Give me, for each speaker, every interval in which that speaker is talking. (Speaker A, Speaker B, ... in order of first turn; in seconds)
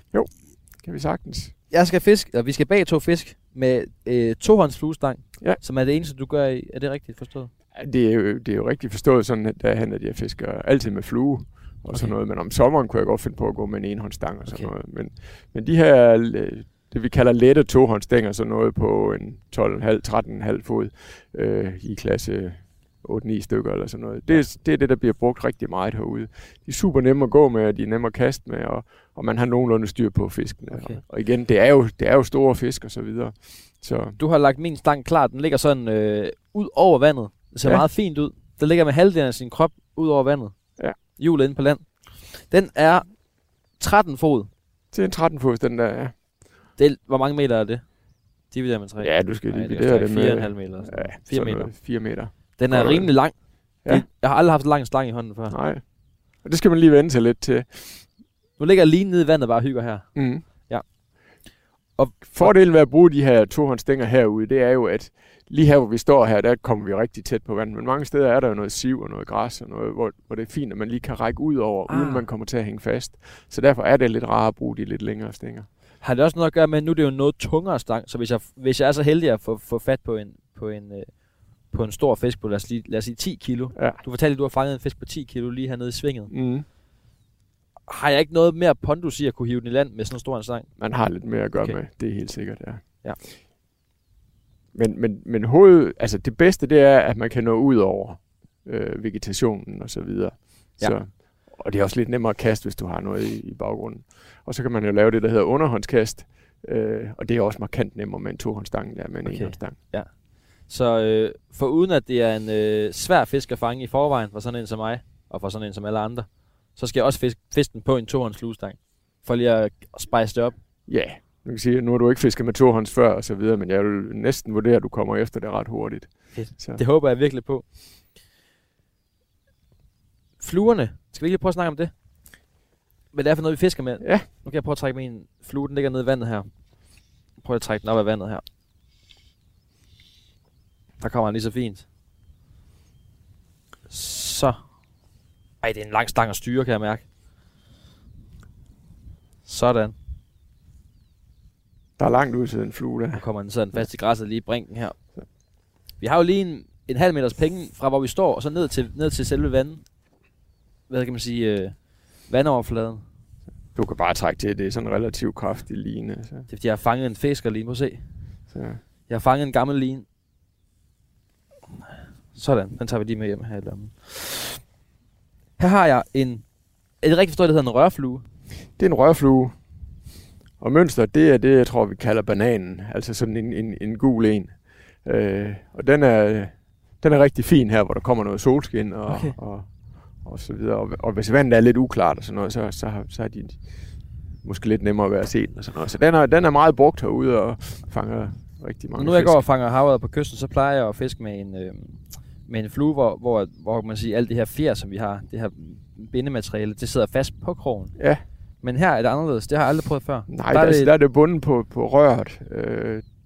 Speaker A: 0.1-1.6, 7.8-34.2, 44.9-46.2, 49.0-53.1, 55.5-58.1, 60.1-60.5, 62.3-75.7, 83.8-84.0, 86.3-86.7, 90.8-92.9, 94.7-109.8, 120.9-126.8, 134.0-134.3, 152.0-153.2, 163.7-166.5, 168.5-168.8, 178.8-179.6, 180.6-193.8, 194.4-199.4, 208.0-208.2, 210.3-213.1
Speaker B: 1.7-7.5, 11.9-12.2, 30.7-31.0, 34.2-44.5, 46.8-47.9, 48.5-51.8, 52.6-55.6, 58.6-60.9, 62.0-62.6, 71.9-72.2, 76.0-86.3, 87.9-90.8, 109.2-120.6, 126.3-127.7, 130.4-131.9, 133.1-136.5, 137.3-138.4, 141.0-141.8, 143.9-144.6, 145.6-147.1, 149.4-149.9, 153.1-155.0, 156.0-159.8, 160.9-163.0, 166.5-168.1, 169.1-170.1, 172.3-174.6, 175.6-176.4, 177.0-178.2, 189.1-189.4, 198.9-208.0, 208.6-210.9